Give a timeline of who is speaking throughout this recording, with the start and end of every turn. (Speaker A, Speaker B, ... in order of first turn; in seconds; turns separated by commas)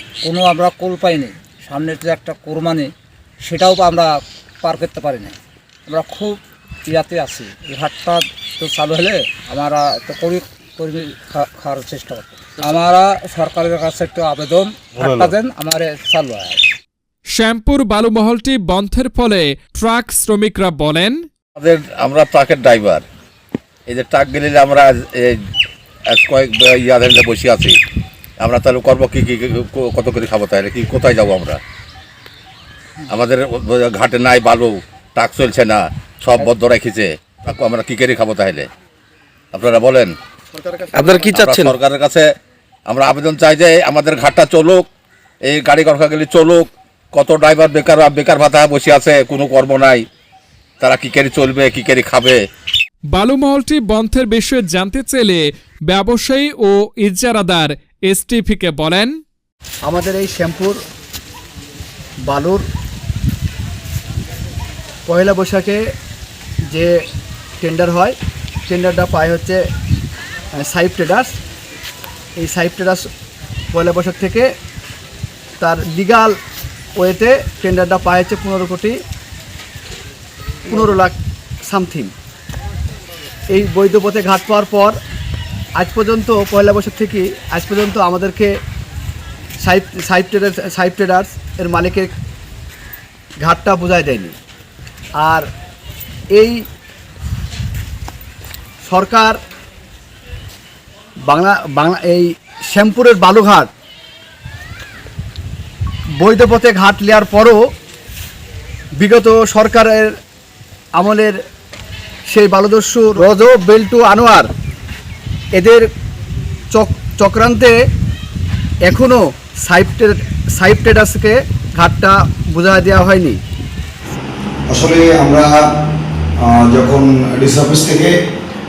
Speaker A: 0.2-16.6, Speaker B: 15.0-15.3, Speaker C: 17.3-21.2, Speaker B: 21.6-23.0, Speaker B: 23.9-25.4, Speaker B: 26.1-27.8, Speaker B: 28.4-31.6, Speaker B: 33.1-38.7, Speaker B: 39.5-40.1, Speaker B: 41.2-42.3, Speaker B: 42.9-44.9, Speaker B: 45.5-50.0, Speaker B: 50.8-52.4, Speaker C: 53.1-59.1, Speaker D: 59.8-60.8, Speaker D: 62.3-62.6, Speaker D: 65.1-65.8, Speaker D: 67.6-68.2, Speaker D: 68.7-69.6, Speaker D: 70.6-71.4, Speaker D: 72.4-73.0, Speaker D: 73.7-74.5, Speaker D: 75.6-76.3, Speaker D: 77.0-79.0, Speaker D: 80.7-82.1, Speaker D: 83.5-85.0, Speaker D: 85.8-88.5, Speaker D: 89.6-92.1, Speaker D: 93.4-94.3, Speaker D: 95.2-95.5, Speaker D: 96.3-96.6, Speaker D: 98.8-99.4, Speaker D: 101.3-103.7, Speaker D: 106.2-107.7, Speaker D: 109.0-110.1, Speaker D: 111.0-111.4, Speaker D: 112.3-114.5, Speaker D: 115.5-115.8, Speaker D: 116.7-117.8, Speaker D: 118.8-123.4, Speaker E: 124.7-125.7, Speaker E: 126.4-128.1